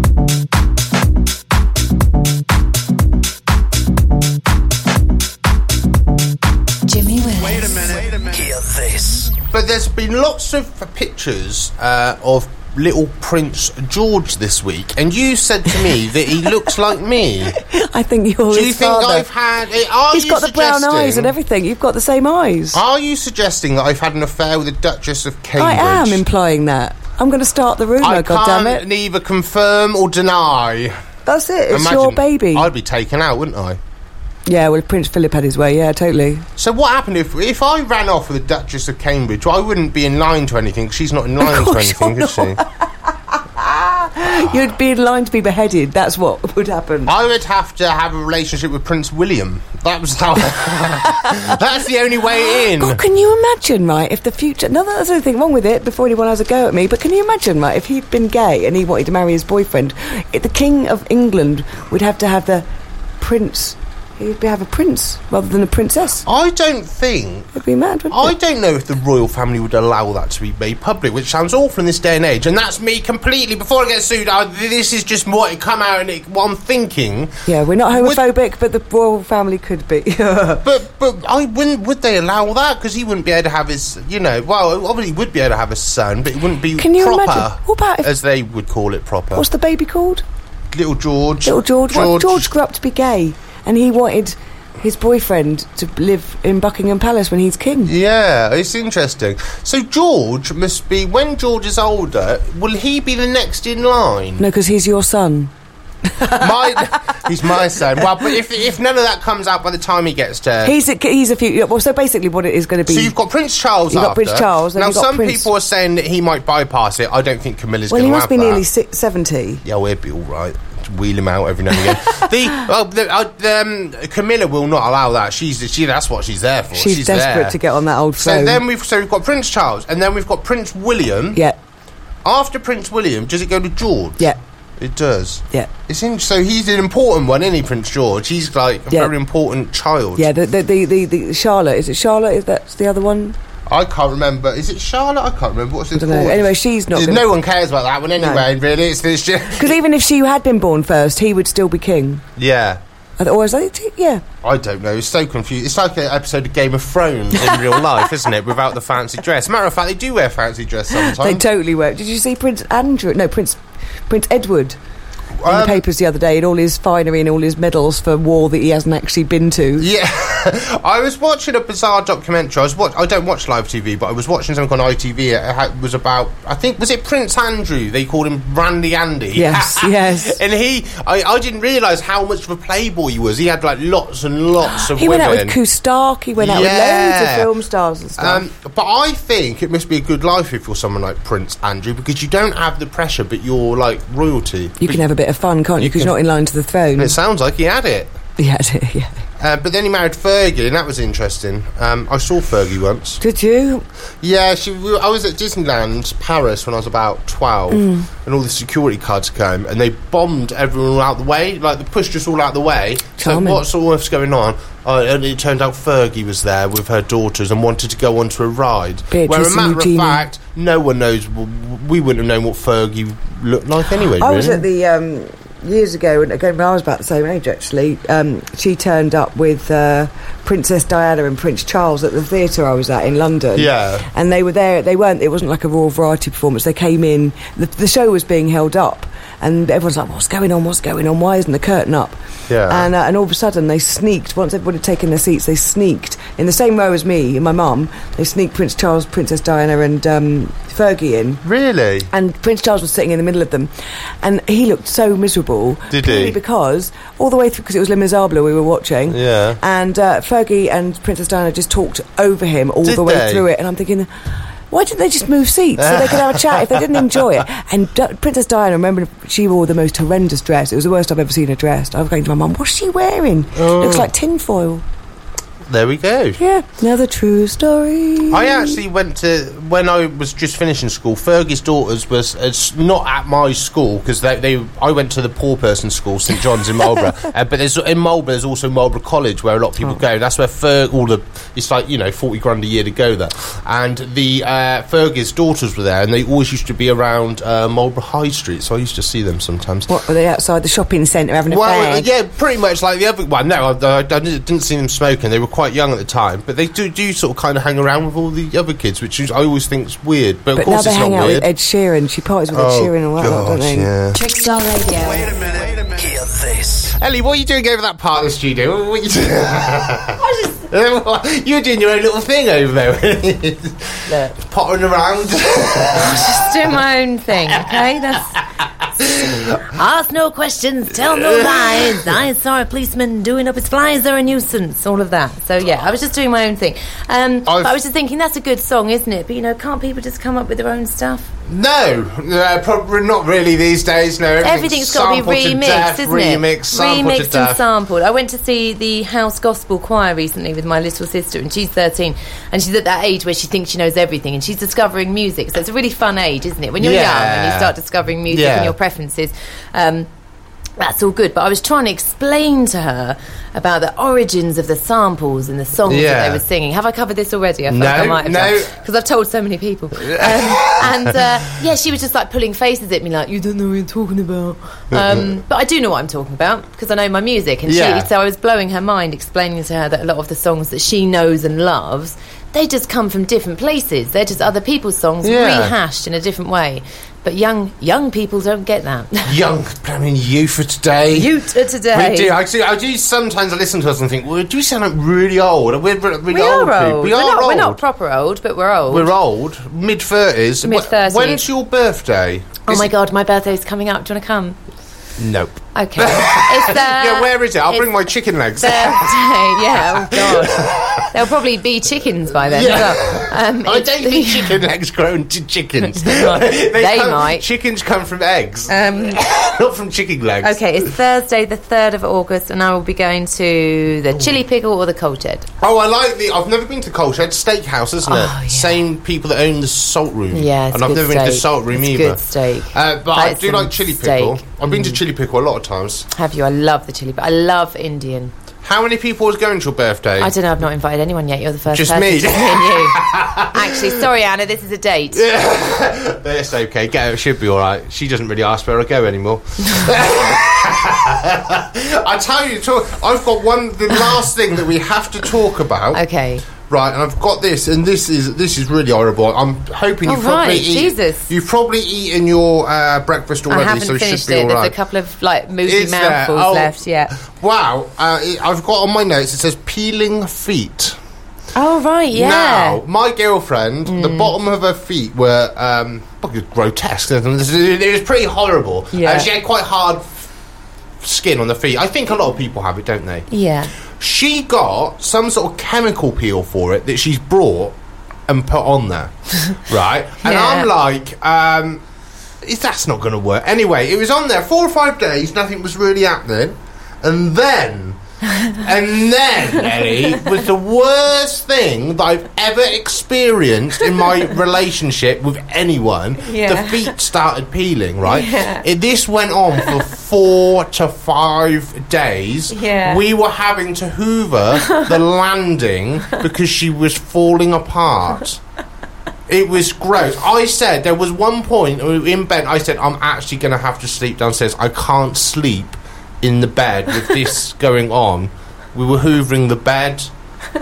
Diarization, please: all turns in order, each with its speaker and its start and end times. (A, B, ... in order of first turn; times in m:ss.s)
0:06.8-0:07.9 A
0:07.4-0:09.3 B
0:09.5-0:17.6 C
0:17.6-0:19.2 D
0:18.5-0:21.3 C
0:20.1-0:22.8 D
0:22.7-0:26.2 C
0:25.6-0:28.8 D
0:28.0-0:31.0 C
0:31.2-0:32.7 D
0:31.7-0:33.8 C
0:34.4-0:36.4 D
0:36.6-0:42.6 C
0:41.4-0:47.1 D
0:47.0-0:53.0 C
0:51.1-0:51.4 D
0:52.3-1:02.6 D
1:03.2-1:06.2 D
1:06.2-1:07.6 C
1:07.6-1:08.3 D
1:08.1-1:17.3 C
1:17.5-1:20.6 D
1:17.9-1:18.2 C
1:20.6-1:29.5 C
1:26.8-1:28.1 D
1:29.3-1:30.2 D
1:30.7-1:32.5 C
1:31.4-1:37.9 D
1:37.8-1:44.4 C
1:44.4-1:45.5 D
1:46.0-1:46.9 D
1:46.4-1:50.8 C
1:50.6-1:53.1 D
1:52.9-1:58.6 C
1:53.9-1:55.5 D
1:57.9-1:59.6 D
1:59.6-2:07.6 C
2:06.7-2:08.6 D
2:08.2-2:11.4 C
2:12.2-2:20.3 C
2:20.2-2:23.4 D
2:23.7-2:29.8 C
2:26.0-2:27.2 D
2:28.2-2:28.4 D
2:29.6-2:32.2 D
2:32.4-2:32.8 C
2:33.2-2:34.2 D
2:34.4-2:41.4 C
2:40.9-2:44.8 D
2:45.4-2:45.8 C
2:45.4-2:49.8 D
2:49.8-3:05.6 C
2:59.3-3:00.4 D
3:04.8-3:08.4 D
3:06.4-3:07.5 C
3:08.2-3:15.0 C
3:14.8-3:17.1 D
3:15.8-3:16.2 C
3:17.0-3:18.1 C
3:18.4-3:19.1 D
3:19.4-3:23.2 C
3:23.2-3:23.8 D
3:24.2-3:44.6 C
3:27.7-3:28.1 D
3:33.2-3:33.6 D
3:39.1-3:40.2 D
3:44.2-4:11.4 D
3:53.5-3:54.1 C
4:02.5-4:02.9 C
4:11.4-4:12.1 C
4:12.1-4:13.7 D
4:14.2-4:24.1 D
4:15.9-4:16.4 C
4:19.1-4:19.6 C
4:22.8-4:23.4 C
4:24.7-4:34.8 D
4:25.8-4:27.2 C
4:33.5-4:34.1 C
4:35.6-4:36.4 C
4:36.4-4:38.8 D
4:38.3-5:00.0 C
4:59.9-5:02.1 D
5:01.5-5:11.5 C
5:10.5-5:13.9 D
5:12.5-5:14.2 C
5:14.1-5:15.4 A
5:15.0-5:16.9 B
5:16.9-5:26.5 C
5:20.2-5:20.6 E
5:24.1-5:24.3 E
5:25.9-5:28.4 E
5:29.0-5:29.6 C
5:29.6-5:41.3 E
5:31.1-5:32.1 C
5:37.4-5:37.7 C
5:41.5-5:47.6 C
5:44.4-6:00.1 E
5:56.8-5:57.7 C
5:58.3-5:58.7 C
6:00.8-6:29.3 E
6:05.8-6:06.4 C
6:07.7-6:08.8 C
6:10.0-6:11.2 C
6:14.9-6:15.3 C
6:17.6-6:18.1 C
6:25.2-6:25.8 C
6:29.2-6:31.3 C
6:31.1-6:32.3 E
6:31.9-6:37.8 C
6:36.3-6:39.1 E
6:38.9-6:42.9 C
6:40.6-6:41.4 E
6:42.7-6:44.6 E
6:45.2-6:51.1 C
6:45.7-6:47.9 E
6:48.6-6:54.6 E
6:52.4-7:00.9 C
6:55.8-6:57.4 E
6:58.7-6:59.2 E
7:00.4-7:05.5 E
7:05.6-7:16.1 C
7:08.0-7:08.8 E
7:10.3-7:15.0 E
7:16.1-7:18.3 E
7:18.6-7:20.3 C
7:20.2-7:25.2 E
7:21.7-7:24.0 C
7:25.1-7:44.7 C
7:35.9-7:36.4 E
7:40.0-7:41.3 E
7:43.5-7:47.1 E
7:45.6-7:51.0 C
7:51.5-7:52.8 E
7:52.1-8:00.3 C
7:53.8-7:54.3 E
7:58.9-7:59.3 E
8:01.0-8:03.3 C
8:03.3-8:03.7 E
8:03.9-8:07.7 C
8:08.3-8:11.8 C
8:10.2-8:10.7 E
8:12.4-8:38.4 C
8:26.2-8:26.9 E
8:28.0-8:28.6 E
8:32.5-8:33.0 E
8:39.3-8:50.1 C